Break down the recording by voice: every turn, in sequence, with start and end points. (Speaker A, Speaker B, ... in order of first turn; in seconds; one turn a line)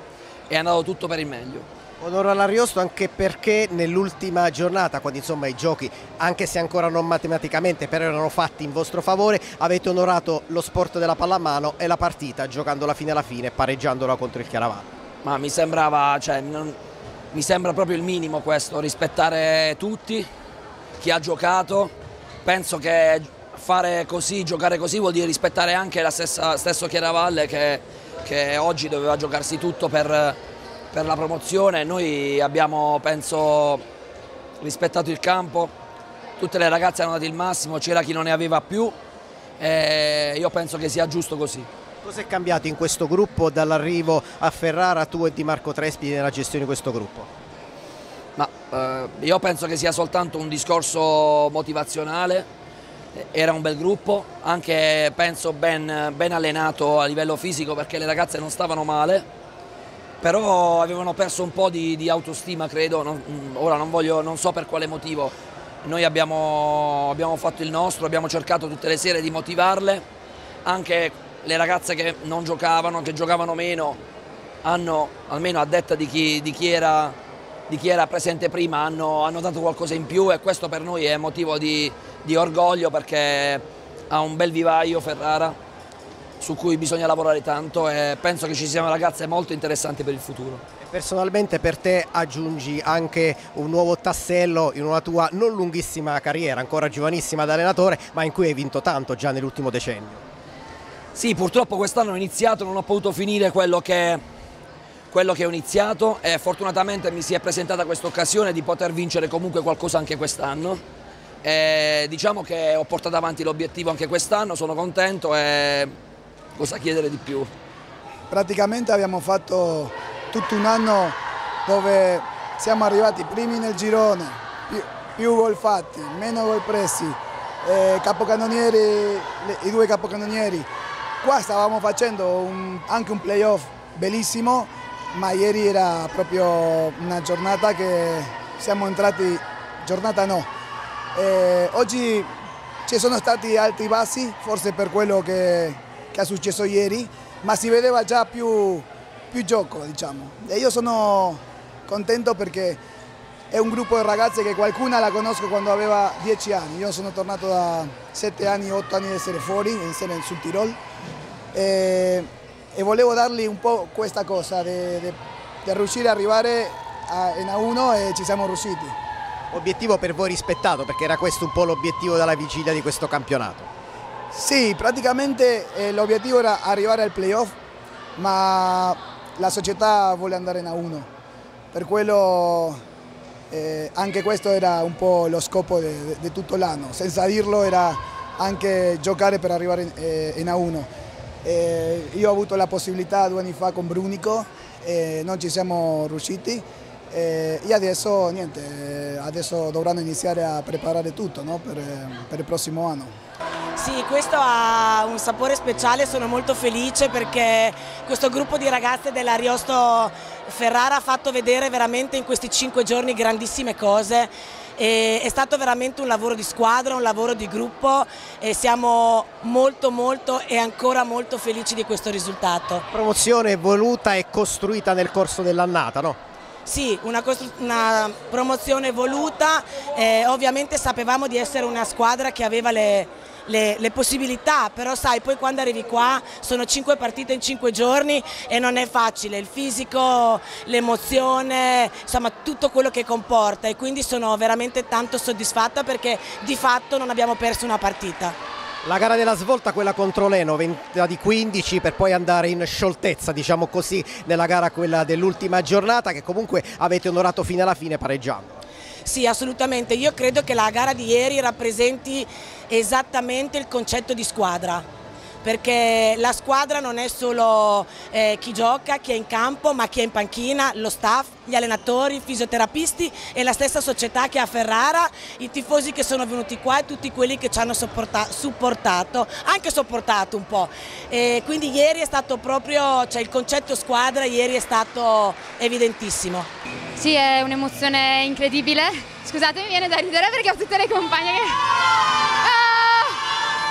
Speaker A: 0.5-1.7
Speaker B: 2.0-14.9
Speaker A: 15.2-16.8
Speaker A: 17.3-20.3
Speaker A: 21.0-21.9
Speaker A: 22.4-30.4
Speaker A: 30.9-33.8
Speaker A: 34.6-35.7
Speaker A: 36.4-38.9
Speaker A: 39.6-41.7
Speaker B: 42.0-47.3
Speaker A: 48.4-52.5
Speaker A: 53.1-59.3
Speaker A: 60.2-70.0
Speaker A: 70.6-74.0
Speaker A: 74.6-77.2
Speaker A: 77.7-85.5
Speaker A: 86.4-90.6
Speaker B: 90.8-100.2
Speaker A: 101.1-104.2
Speaker A: 105.1-110.8
Speaker A: 111.4-115.9
Speaker A: 116.5-117.5
Speaker C: 118.3-130.7
Speaker C: 131.2-140.5
Speaker C: 141.1-142.3
Speaker C: 142.8-152.8
Speaker C: 153.5-160.8
Speaker C: 161.5-168.9
Speaker B: 169.5-173.7
Speaker C: 174.3-177.5
Speaker C: 178.2-181.1
Speaker C: 181.7-182.8
Speaker C: 183.5-190.9
Speaker C: 191.4-203.1
Speaker D: 203.8-222.8
Speaker B: 222.9-226.2
Speaker D: 226.7-248.3
Speaker B: 248.8-258.6
Speaker D: 259.0-264.8
Speaker D: 265.4-286.5
Speaker E: 286.9-293.2